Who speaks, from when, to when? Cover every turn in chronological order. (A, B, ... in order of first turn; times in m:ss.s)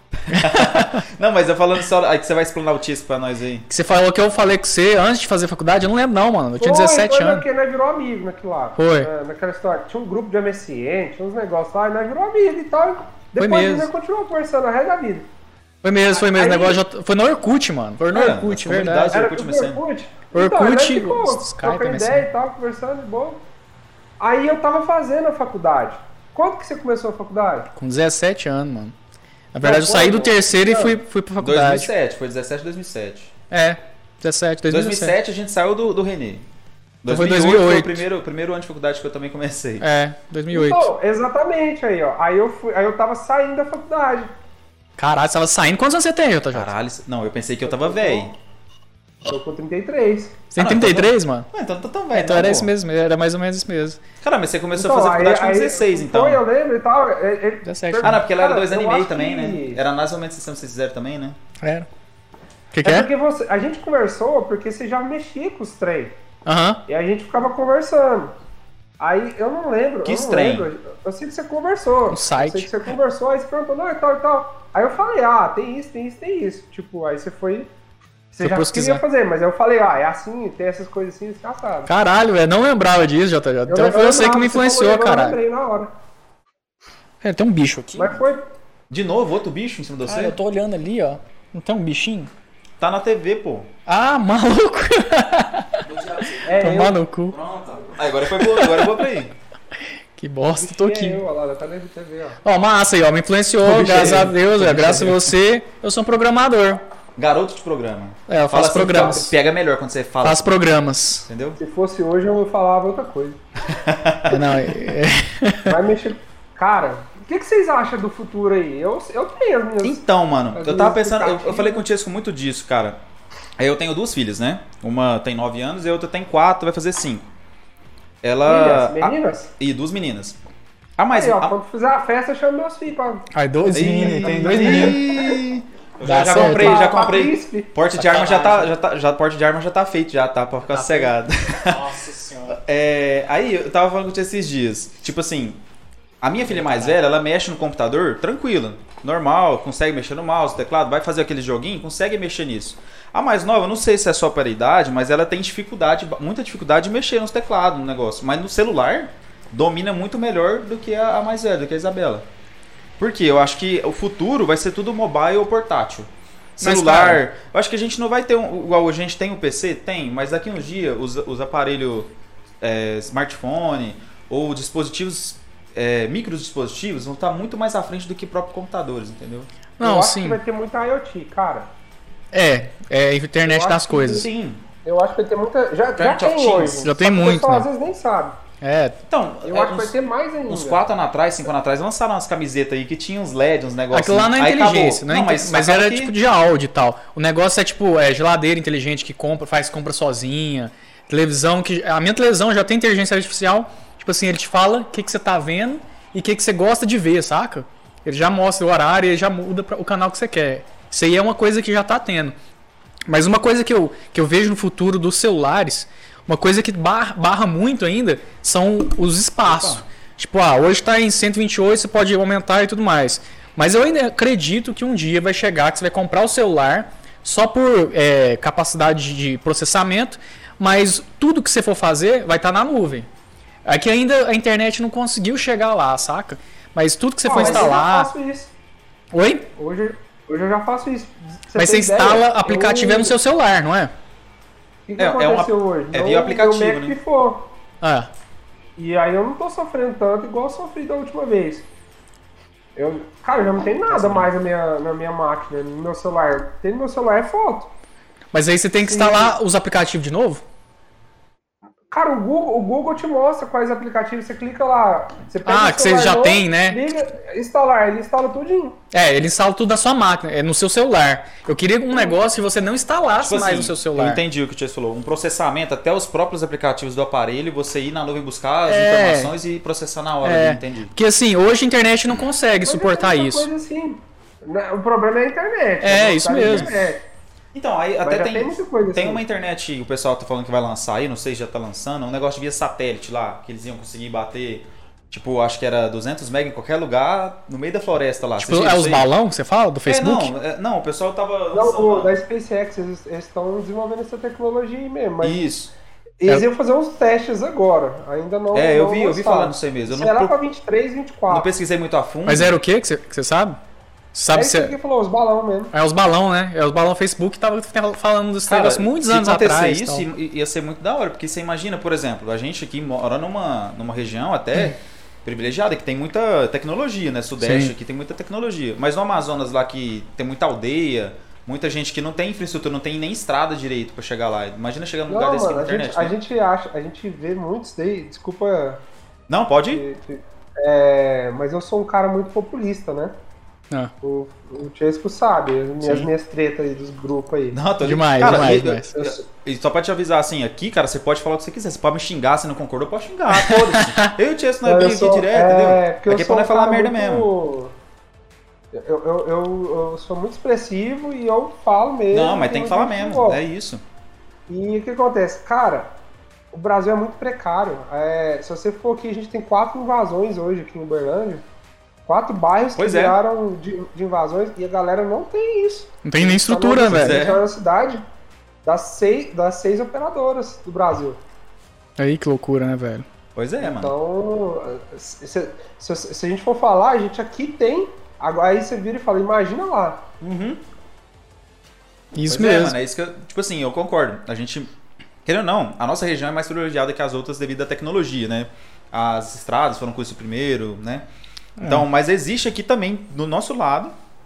0:00.3-0:03.7 A
0:00.3-0:01.0 B
0:03.7-0:07.5 B
0:06.6-0:15.3 C
0:08.8-0:09.1 B
0:13.4-0:13.9 B
0:15.8-0:19.2 B
0:16.1-0:16.8 C
0:18.1-0:19.8 A
0:19.1-0:23.4 C
0:20.3-0:22.3 B
0:24.2-0:27.7 C
0:27.8-0:29.0 B
0:29.5-0:31.9 B
0:29.6-0:31.0 C
0:31.4-0:33.3 A
0:33.5-0:35.2 B
0:34.7-0:36.4 A
0:37.0-0:39.8 A
0:37.1-0:38.0 B
0:39.8-0:40.9 B
0:40.5-0:44.3 C
0:45.0-0:46.7 B
0:46.5-0:48.3 A
0:47.6-0:48.4 C
0:49.3-0:50.4 C
0:50.5-0:51.5 B
0:50.6-0:52.7 A
0:52.1-0:54.0 B
0:54.2-0:56.4 A
0:54.8-0:59.8 C
0:57.6-0:58.2 B
0:58.0-1:01.4 A
1:01.6-1:01.9 B
1:02.7-1:03.1 B
1:02.8-1:06.2 C
1:06.5-1:06.8 B
1:06.9-1:08.3 C
1:09.0-1:17.7 C
1:10.0-1:10.7 A
1:12.1-1:12.7 B
1:18.3-1:21.9 C
1:18.4-1:19.0 B
1:21.9-1:25.4 B
1:23.7-1:25.9 C
1:27.2-1:28.2 B
1:28.0-1:28.5 C
1:28.9-1:30.4 A
1:30.1-1:32.3 B
1:32.8-1:33.7 A
1:33.9-1:35.8 B
1:35.8-1:36.7 A
1:36.5-1:37.0 C
1:36.6-1:37.4 B
1:37.3-1:39.3 A
1:38.4-1:39.0 B
1:40.2-1:41.2 B
1:40.5-1:42.4 C
1:42.4-1:46.8 B
1:43.6-1:45.3 A
1:47.2-1:50.5 A
1:48.3-1:49.3 B
1:50.2-1:51.3 B
1:51.3-1:51.6 A
1:51.6-1:53.4 C
1:53.7-1:54.8 A
1:54.3-1:55.8 B
1:55.7-2:00.0 C
1:59.8-2:03.0 A
2:00.5-2:01.8 C
2:03.6-2:07.3 A
2:08.2-2:10.4 A
2:08.4-2:09.5 C
2:11.0-2:11.6 A
2:11.1-2:15.3 C
2:13.3-2:15.0 B
2:13.7-2:21.8 A
2:16.0-2:16.8 B
2:16.1-2:17.7 C
2:18.0-2:18.7 B
2:20.7-2:22.6 B
2:22.5-2:25.6 A
2:26.2-2:42.3 A
2:26.5-2:27.0 B
2:43.0-2:59.5 A
2:46.6-2:47.2 B
2:59.8-3:00.4 B
2:59.8-3:01.7 C
3:02.3-3:04.3 B
3:03.4-3:04.2 C
3:04.0-3:04.6 A
3:04.8-3:08.4 C
3:06.0-3:06.8 A
3:06.8-3:07.7 B
3:08.6-3:09.0 B
3:09.1-3:10.0 A
3:09.4-3:10.8 C
3:10.5-3:16.1 A
3:13.9-3:32.4 B
3:33.1-3:53.1 B
3:39.4-3:39.8 A
3:53.6-3:58.1 B
3:57.2-3:58.5 C
3:57.3-3:57.7 A
3:59.1-3:59.5 B
3:59.6-4:03.2 C
4:01.6-4:03.9 B
4:04.9-4:07.5 C
4:05.0-4:07.0 A
4:07.8-4:08.1 B
4:08.8-4:11.7 C
4:12.8-4:17.7 C
4:13.9-4:14.3 A
4:18.3-4:20.4 B
4:18.8-4:19.4 C
4:21.9-4:28.8 C
4:25.5-4:26.8 B
4:28.9-4:34.2 B
4:31.9-4:32.2 C
4:33.2-4:40.9 A
4:38.7-4:39.3 B
4:40.2-4:43.5 B
4:42.6-4:47.0 C
4:45.8-4:46.9 B
4:47.5-4:59.1 A
4:48.0-4:49.2 C
4:58.4-5:00.3 B
4:59.9-5:02.2 A
5:01.5-5:05.4 C
5:05.2-5:05.7 A
5:06.2-5:11.5 C
5:08.5-5:10.4 A
5:11.3-5:12.6 A
5:12.3-5:13.6 B
5:14.1-5:14.8 B
5:14.3-5:15.7 C
5:15.7-5:20.0 B
5:18.5-5:36.2 A
5:27.4-5:27.7 B
5:35.1-5:38.8 C
5:39.3-5:39.8 A
5:39.7-5:43.2 C
5:44.0-5:47.6 C
5:45.8-5:46.1 B
5:47.5-5:57.3 A
5:47.8-5:48.9 B
5:49.0-5:49.2 C
5:53.3-5:54.1 B
5:54.6-5:57.8 C
5:58.7-6:03.4 C
6:02.1-6:03.8 A
6:04.5-6:05.9 C
6:06.5-6:11.4 C
6:12.1-6:18.0 C
6:12.8-6:13.2 A
6:16.0-6:17.2 B
6:16.9-6:17.4 A
6:18.6-6:21.2 C
6:22.0-6:23.0 B
6:23.4-6:23.9 A
6:23.6-6:30.1 C
6:30.2-6:30.6 A
6:32.1-6:32.8 B
6:32.3-6:34.7 A
6:35.2-6:41.0 A
6:41.6-6:41.9 B
6:41.6-6:44.0 A